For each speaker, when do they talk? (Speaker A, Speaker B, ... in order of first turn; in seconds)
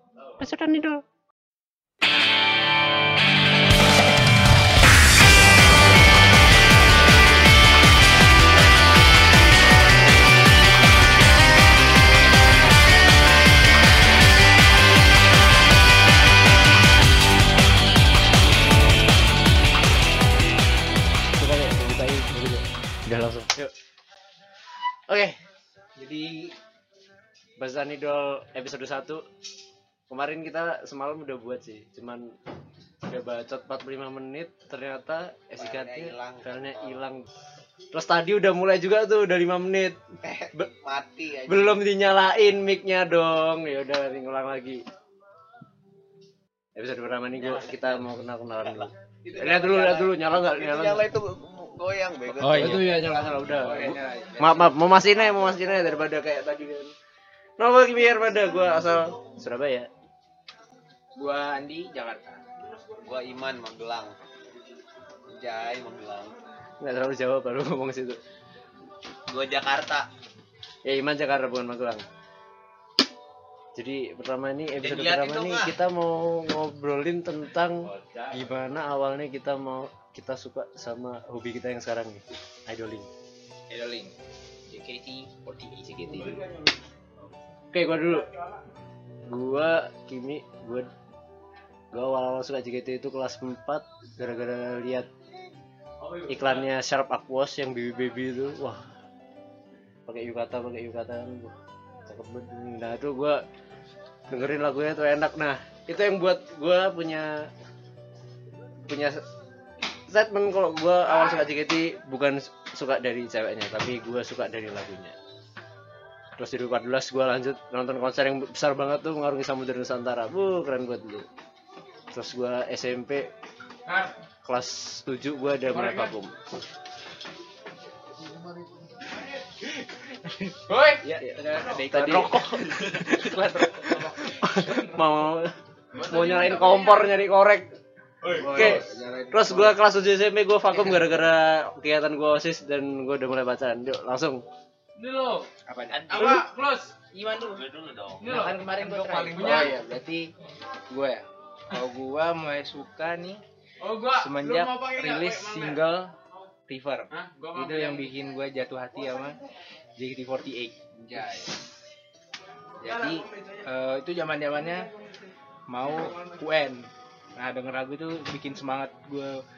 Speaker A: 0.4-1.0, 21.4-23.7, 25.1-25.3, 27.6-29.2, 30.1-32.3, 33.1-37.3, 37.9-40.0, 41.5-44.8, 46.8-51.0, 52.5-56.9, 57.6-59.9, 66.8-68.2, 70.8-72.0, 73.8-83.1, 87.7-88.2, 89.3-90.9, 91.9-95.1, 96.3-98.8, 100.1-101.5, 102.1-103.4, 104.3-107.5, 108.9-109.2, 110.1-115.1, 116.4-121.3, 122.1-123.3, 124.4-126.4, 131.9-137.7, 138.4-144.4
Speaker B: 25.9-26.5, 52.4-52.8, 53.4-54.7, 61.1-62.4, 83.7-84.1, 84.7-86.4, 129.8-134.1, 138.2-139.8, 145.7-146.4, 147.1-147.4, 148.3-150.3, 150.9-153.4, 154.1-156.1, 156.7-159.4, 160.0-161.7, 162.8-164.9, 165.7-169.4
Speaker C: 35.6-37.0, 40.2-41.8, 47.4-48.1, 48.6-52.9, 63.0-64.1, 65.3-66.4, 69.3-70.1, 74.8-75.7, 77.8-78.5, 145.9-146.5, 147.4-148.3, 149.1-149.7
Speaker D: 125.7-126.1, 130.7-131.0, 136.0-137.1, 144.9-145.5, 146.1-146.9, 148.2-149.7, 153.8-155.3, 157.1-158.1